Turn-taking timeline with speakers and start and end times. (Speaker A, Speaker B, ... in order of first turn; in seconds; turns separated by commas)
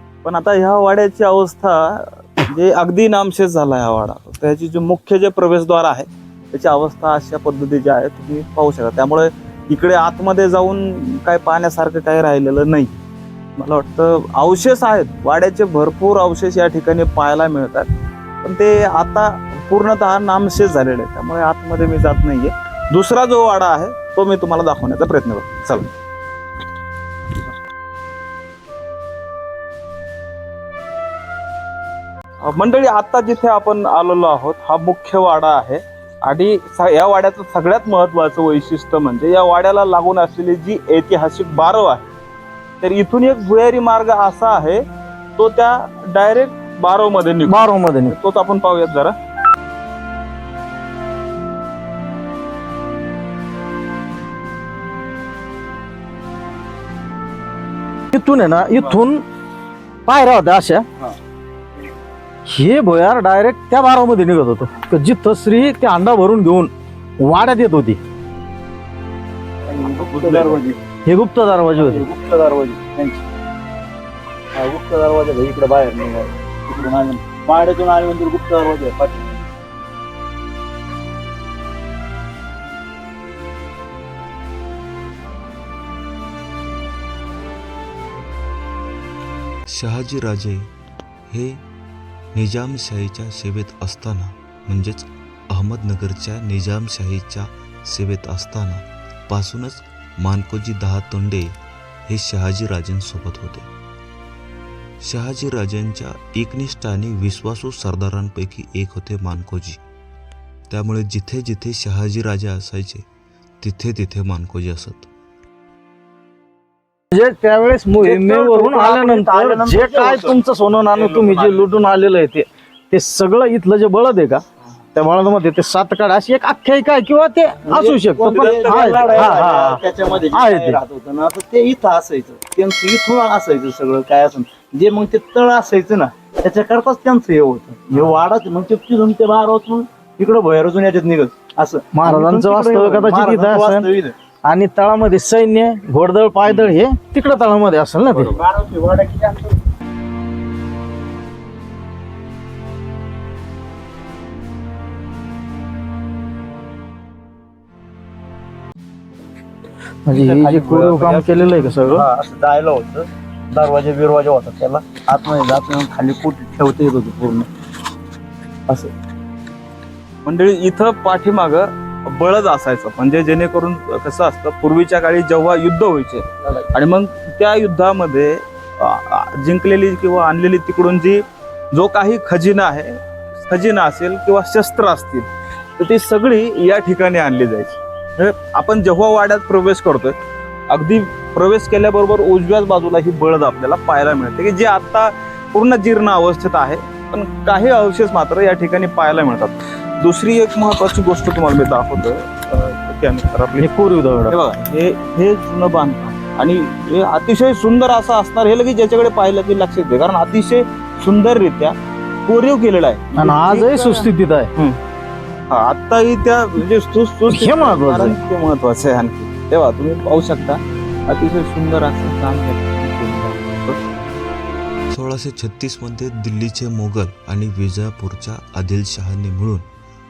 Speaker A: 0.2-13.0, Speaker A: 13.6-17.9, Speaker A: 18.4-25.9, Speaker A: 32.4-42.1, Speaker A: 42.8-44.8, Speaker A: 45.4-49.1, Speaker B: 47.5-48.1, Speaker B: 58.1-59.2, Speaker B: 60.1-60.9, Speaker B: 62.5-68.0, Speaker C: 69.7-70.8, Speaker A: 70.0-70.7, Speaker B: 71.1-72.0, Speaker C: 71.8-73.2, Speaker C: 74.5-79.5, Speaker D: 89.7-90.6, Speaker D: 91.3-91.6, Speaker D: 92.3-101.5, Speaker D: 102.1-103.7, Speaker D: 105.0-109.8, Speaker D: 110.7-113.0, Speaker D: 113.6-115.1, Speaker B: 117.1-124.4, Speaker C: 118.0-121.9, Speaker B: 125.0-130.8, Speaker C: 127.7-144.1, Speaker A: 128.2-129.8, Speaker B: 141.9-143.9, Speaker B: 144.5-148.3, Speaker C: 148.1-149.6, Speaker B: 160.1-162.1, Speaker C: 160.1-167.5, Speaker A: 170.2-190.2, Speaker A: 190.7-203.7, Speaker B: 203.6-204.4, Speaker A: 204.3-214.8, Speaker B: 213.2-214.5, Speaker A: 215.5-223.8, Speaker B: 217.3-218.2, Speaker D: 224.9-229.7